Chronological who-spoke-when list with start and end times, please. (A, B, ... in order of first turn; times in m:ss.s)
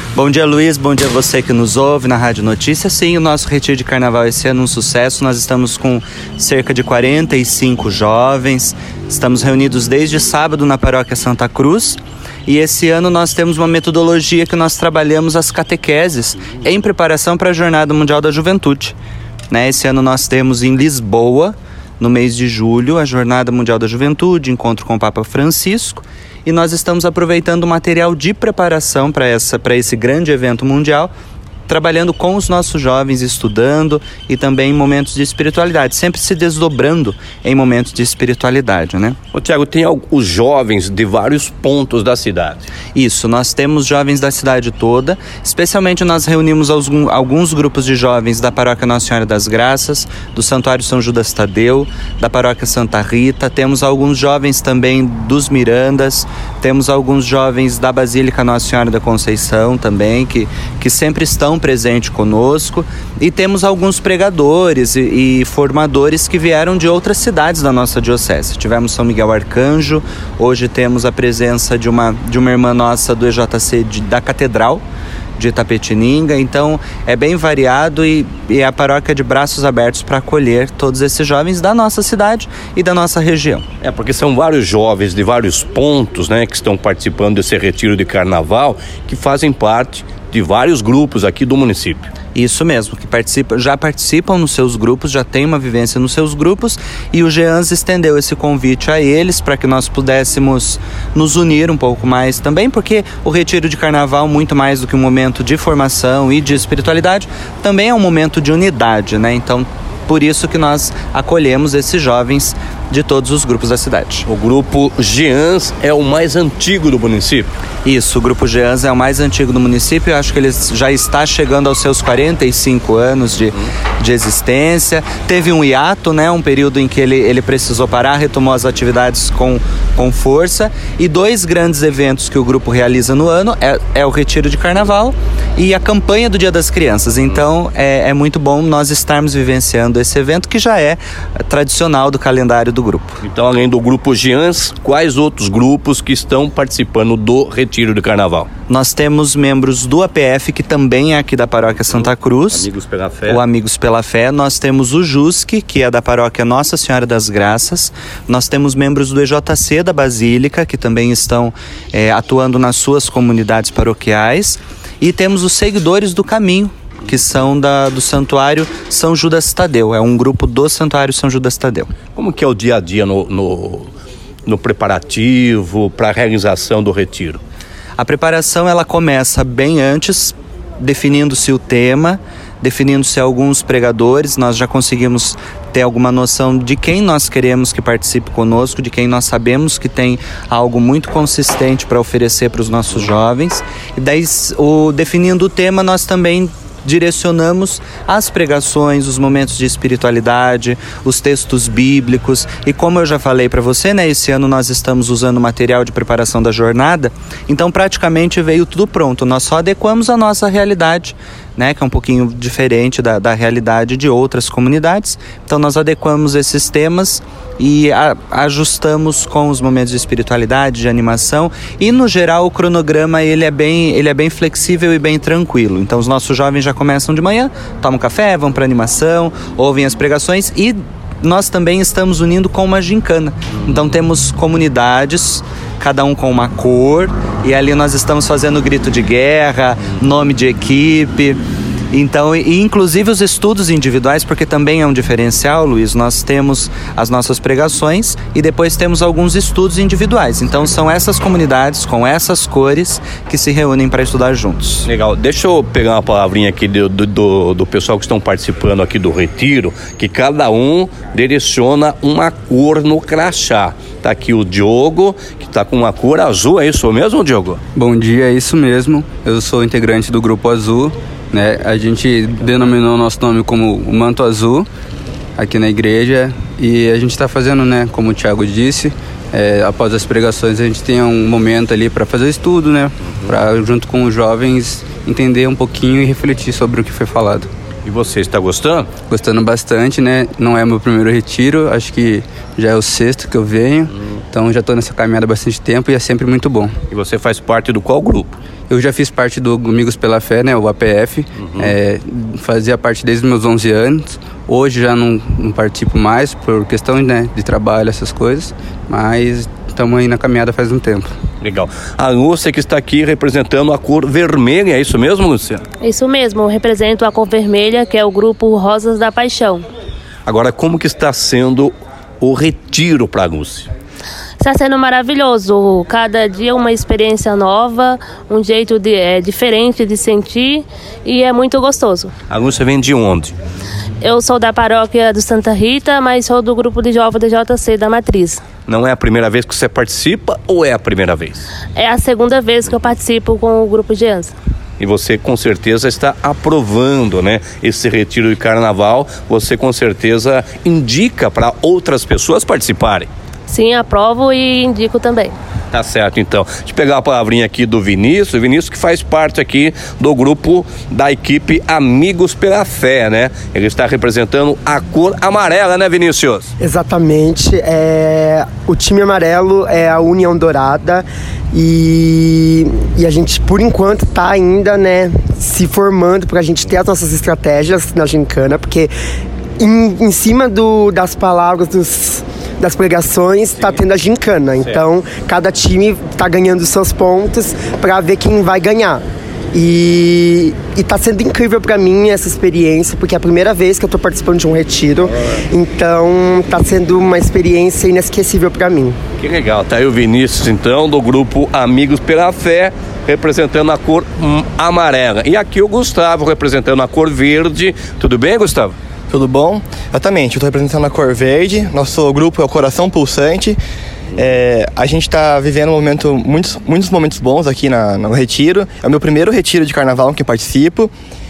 0:00.1-0:19.0 A
0:19.5-0:31.1 A
0:31.7-0:39.2 A
0:39.3-0:42.7 B
0:42.9-1:14.8 A
1:15.4-1:23.6 A
1:23.8-1:32.1 B
1:32.3-1:54.2 A
1:54.3-1:57.5 B
1:57.8-2:23.2 A
2:23.2-2:28.5 B
2:28.7-2:32.7 A
2:32.5-2:33.4 B
2:33.3-2:51.9 A
2:52.1-2:53.9 B
2:54.4-2:57.4 B
2:58.0-4:01.4 A
4:01.9-4:14.9 A
4:14.8-4:27.6 B
4:27.7-4:34.7 C
4:35.4-4:47.5 C
4:47.8-4:48.9 B
4:49.1-4:56.7 C
4:56.9-4:58.4 B
4:58.7-5:11.1 C
5:01.4-5:01.7 B
5:11.4-5:15.6 B
5:15.8-5:19.6 D
5:20.2-5:23.7 B
5:24.4-5:32.1 D
5:32.3-5:33.3 B
5:34.0-5:38.4 D
5:38.6-5:41.4 B
5:41.8-5:44.3 D
5:44.8-5:53.1 B
5:53.5-5:55.3 D
5:55.7-6:06.5 B
6:06.6-6:18.9 E
6:19.6-6:29.0 E
6:29.5-6:39.0 E
6:39.2-6:48.7 B
6:49.1-6:53.6 F
6:54.2-7:00.9 F